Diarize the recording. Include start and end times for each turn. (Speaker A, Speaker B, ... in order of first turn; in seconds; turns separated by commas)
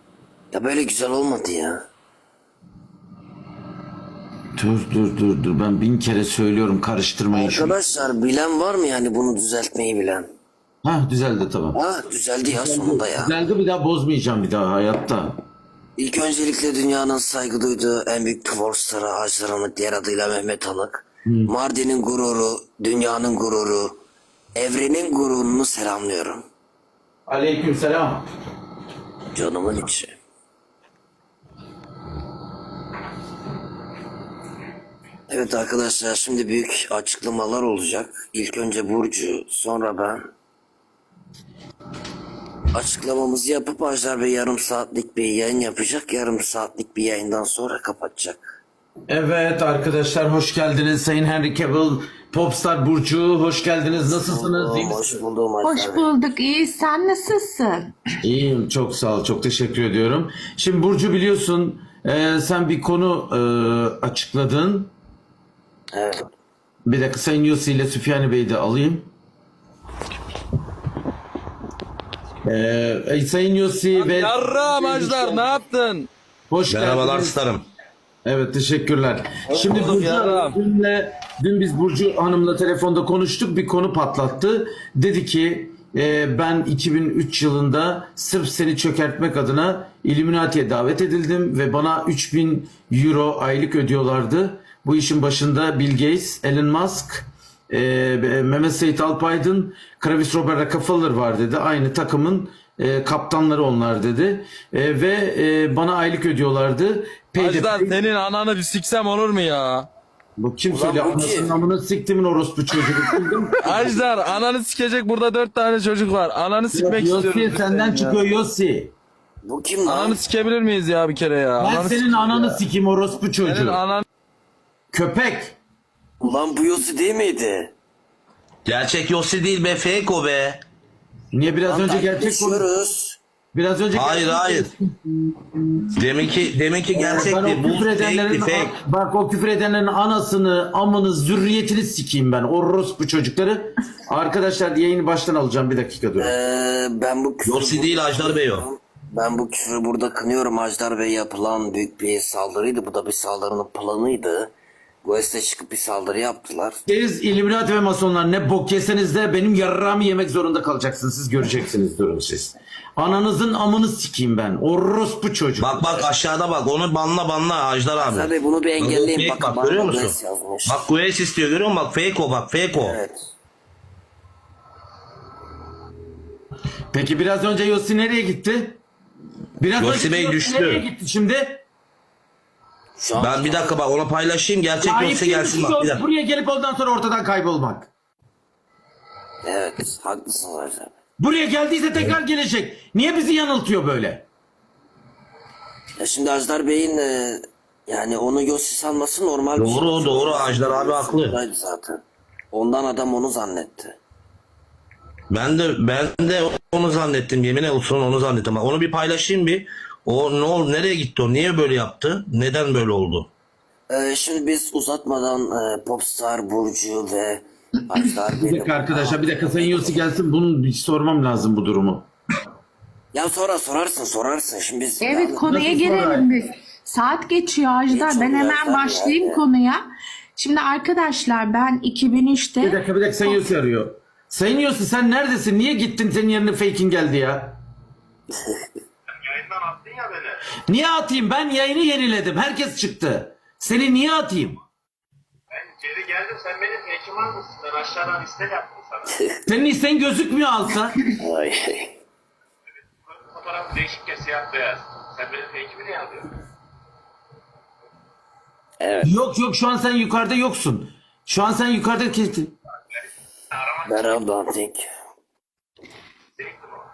Speaker A: 0.5-1.8, Speaker B: 4.5-7.8, Speaker A: 7.3-10.3, Speaker B: 10.8-11.8, Speaker A: 11.7-13.3, Speaker B: 12.4-15.4, Speaker A: 16.0-24.0, Speaker B: 21.2-21.5, Speaker A: 24.6-26.4, Speaker B: 27.3-28.2, Speaker A: 29.3-30.2, Speaker A: 35.3-40.3, Speaker A: 42.7-48.6, Speaker B: 49.1-55.2, Speaker A: 54.1-56.1, Speaker C: 55.6-57.9, Speaker B: 58.2-64.9, Speaker A: 65.9-66.3, Speaker B: 66.8-69.1, Speaker B: 72.4-75.5, Speaker D: 73.9-76.1, Speaker B: 76.5-77.4, Speaker E: 76.7-77.6, Speaker B: 78.2-108.0, Speaker D: 79.5-80.6, Speaker D: 107.4-109.9, Speaker B: 110.4-114.0, Speaker A: 110.7-111.5, Speaker D: 113.6-118.2, Speaker B: 116.7-118.9, Speaker A: 119.4-120.2, Speaker D: 119.8-122.5, Speaker B: 121.6-123.8, Speaker D: 123.4-124.0, Speaker B: 124.9-125.5, Speaker A: 126.2-127.7, Speaker E: 128.7-130.6, Speaker B: 131.3-132.7, Speaker A: 131.7-133.2, Speaker B: 133.5-134.7, Speaker E: 133.9-134.7, Speaker E: 135.9-138.7, Speaker B: 136.9-146.3, Speaker A: 146.2-154.5, Speaker E: 147.4-148.7, Speaker A: 155.0-156.8, Speaker B: 156.9-166.0, Speaker E: 165.6-173.0, Speaker A: 168.0-170.8, Speaker A: 172.8-173.3, Speaker B: 176.9-178.8, Speaker B: 179.6-181.6, Speaker E: 179.8-180.8, Speaker A: 183.0-183.8, Speaker E: 183.2-186.0, Speaker B: 184.8-187.9, Speaker A: 189.4-190.9, Speaker B: 191.2-194.2, Speaker A: 196.0-204.0, Speaker E: 199.6-201.3, Speaker E: 205.3-213.3, Speaker A: 213.9-220.1, Speaker B: 218.4-222.1, Speaker A: 223.1-225.5, Speaker C: 225.0-229.8, Speaker B: 225.4-226.3, Speaker A: 227.9-229.4, Speaker C: 230.3-233.4, Speaker B: 232.6-237.6, Speaker F: 239.2-240.4, Speaker B: 240.7-244.6, Speaker F: 245.5-249.2, Speaker A: 249.1-249.4, Speaker B: 249.5-251.0, Speaker A: 251.1-251.9, Speaker F: 253.1-256.3, Speaker A: 258.8-259.1, Speaker B: 259.0-262.5, Speaker A: 263.9-264.8, Speaker F: 266.4-266.7